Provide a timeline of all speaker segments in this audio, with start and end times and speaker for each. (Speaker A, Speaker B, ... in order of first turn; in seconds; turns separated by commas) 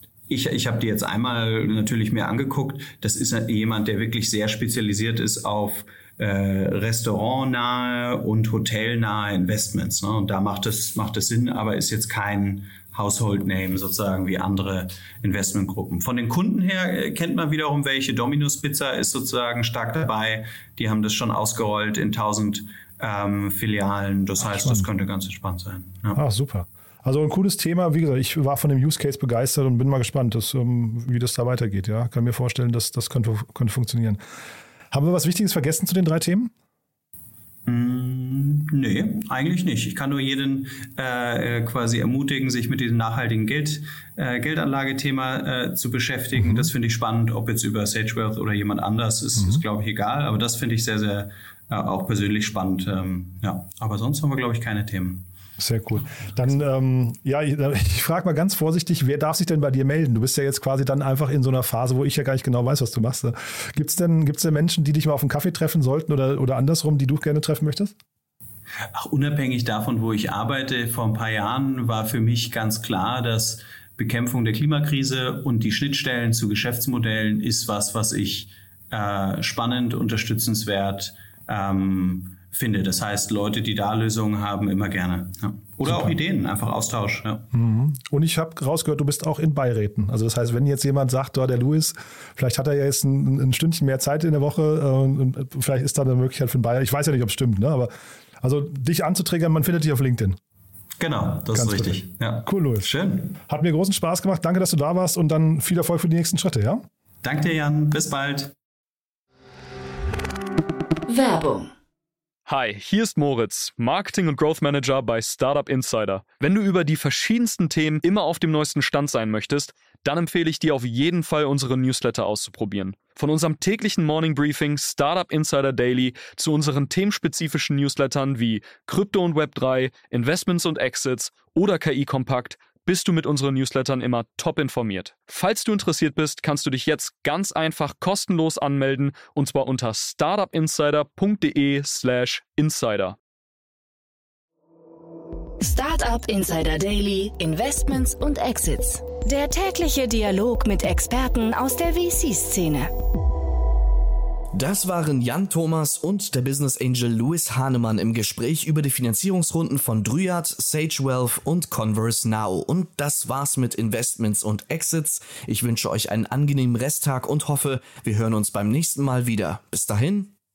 Speaker A: 0.3-26.2, Speaker B: 24.4-24.9, Speaker B: 26.1-34.2, Speaker B: 34.9-36.5, Speaker A: 37.7-55.3, Speaker B: 46.4-46.7, Speaker B: 55.6-67.9, Speaker A: 68.9-87.5, Speaker B: 85.8-86.2, Speaker B: 87.5-100.4, Speaker A: 101.0-103.3, Speaker B: 101.5-106.8, Speaker A: 107.2-108.5, Speaker C: 111.1-111.7, Speaker D: 112.5-143.2, Speaker C: 145.6-152.9, Speaker E: 154.5-170.3